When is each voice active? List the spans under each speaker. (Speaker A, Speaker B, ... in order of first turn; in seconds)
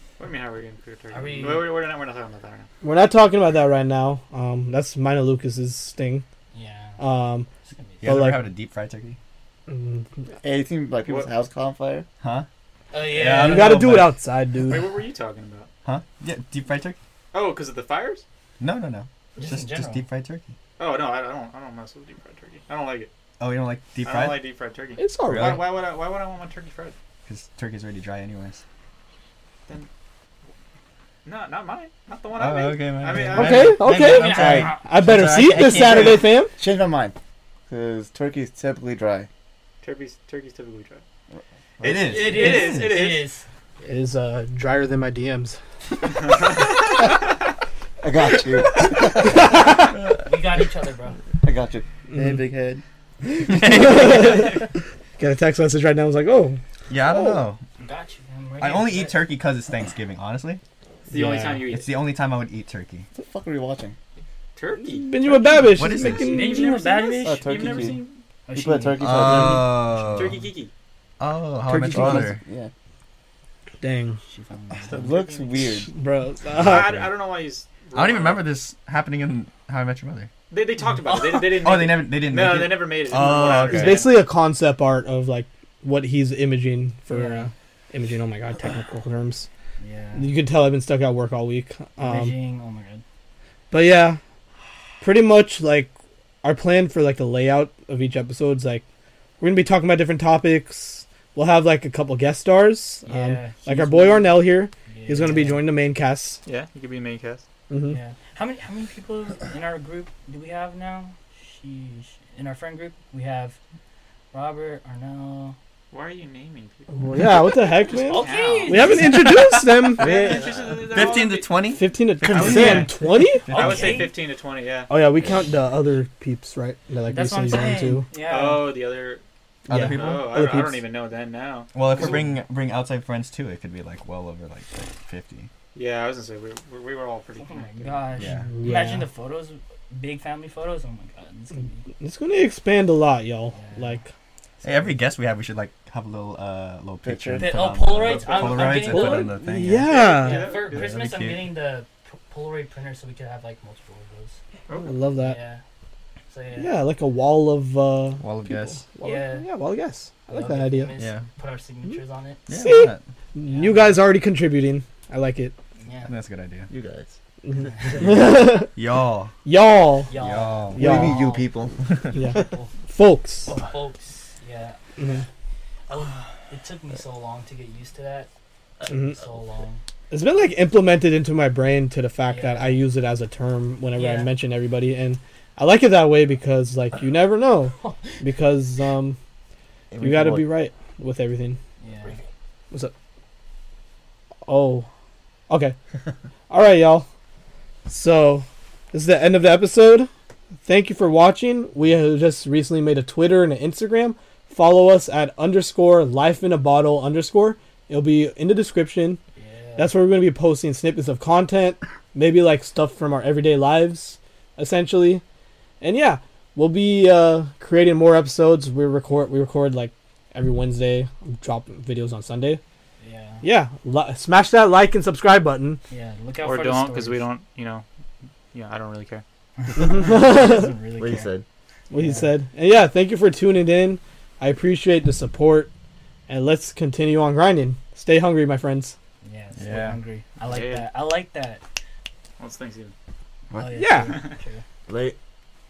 Speaker A: 0.2-2.7, 11.1-11.3, 14.6-15.7, 17.3-18.2, 20.8-23.1, 24.0-26.9, 31.2-33.8, 39.8-41.0, 41.8-43.3, 61.1-61.9, 64.5-65.1, 66.1-68.2, 70.1-70.7, 74.9-75.7, 76.5-78.5, 80.5-84.2, 106.5-107.4, 115.9-117.0, 117.9-119.3, 119.9-121.6, 122.3-124.9, 128.2-129.2, 129.7-132.3, 135.7-138.1, 148.0-151.0, 154.7-154.9, 226.4-227.8, 228.5-229.2, 240.4-240.9, 242.4-242.9
Speaker B: 1.1-1.7, 6.5-7.0, 7.6-8.2, 12.9-13.9, 19.4-20.0, 33.9-34.9, 42.1-43.4, 50.2-51.2, 57.8-59.3, 66.0-69.6, 74.2-75.2, 81.0-81.5, 87.1-87.5, 89.8-90.3, 92.0-93.0, 103.0-105.7, 107.8-113.6, 114.3-115.6, 117.9-119.4, 120.1-120.3, 123.5-124.2, 127.1-128.7, 137.4-141.8, 143.5-144.1, 147.3-149.4, 150.0-154.4, 155.2-155.6, 156.3-156.8, 159.0-159.5, 160.3-162.5, 163.4-164.0, 165.8-166.1, 167.7-168.0, 170.1-171.5, 172.2-172.7, 173.5-174.8, 175.9-178.3, 178.8-179.8, 182.2-182.8, 183.9-184.3, 187.8-188.2, 191.8-192.2, 209.3-209.9, 223.0-223.4, 225.9-227.3, 229.6-231.3, 231.9-232.3, 239.2-241.6, 243.5-244.6
Speaker C: 2.8-6.2, 7.0-7.5, 8.0-8.4, 9.7-10.1, 13.3-14.9, 25.0-25.7, 33.3-36.5, 43.8-45.6, 52.1-52.4, 53.4-54.7, 55.2-56.6, 61.1-61.6, 64.8-66.7, 71.7-72.3, 73.8-74.2, 75.8-77.0, 83.7-89.5, 90.2-92.3, 93.7-94.2, 95.0-95.9, 96.4-98.8, 99.4-106.4, 107.7-108.0, 117.0-120.1, 121.7-123.5, 124.9-128.1, 129.7-130.8, 138.5-139.1, 142.0-144.1, 148.9-150.5, 154.8-155.4, 156.6-160.9, 162.5-165.5, 167.4-168.7, 169.4-170.1, 170.7-171.2, 172.1-173.5, 175.0-175.2, 178.9-179.2, 180.1-189.2, 190.0-191.6, 194.4-194.9, 195.5-195.8, 196.5-197.1, 197.8-200.1, 200.6-209.2, 209.8-215.2, 215.8-222.6, 223.4-225.8, 229.8-230.7, 231.9-235.7, 236.3-238.9, 243.7-244.1
Speaker D: 8.0-9.2, 12.2-12.4, 13.0-14.2, 15.8-17.0, 18.6-20.5, 23.4-24.4, 25.2-25.7, 27.2-28.6, 32.3-36.3, 41.8-43.0, 53.4-54.6, 56.9-57.6, 58.6-60.6, 61.6-63.1, 65.6-66.3, 69.0-70.4, 71.2-72.4, 76.5-77.1, 77.9-80.3, 81.5-84.1, 119.2-119.8, 120.8-124.1, 129.7-130.6, 131.7-135.5, 138.2-138.5, 144.6-149.9, 150.6-151.5, 158.2-158.8, 160.9-161.2, 162.5-163.0, 166.0-166.7, 168.0-169.3, 170.1-170.8, 239.6-240.0
Speaker E: 10.4-12.1, 34.2-37.1, 37.7-39.3, 48.0-49.8, 51.4-52.8, 57.1-57.4, 63.1-64.0, 67.2-68.0, 68.5-69.9, 71.7-72.7, 74.9-75.9, 120.0-121.0, 147.0-147.6, 166.7-167.9, 170.8-172.4, 189.9-190.5, 231.0-231.4, 243.5-243.8, 244.9-245.2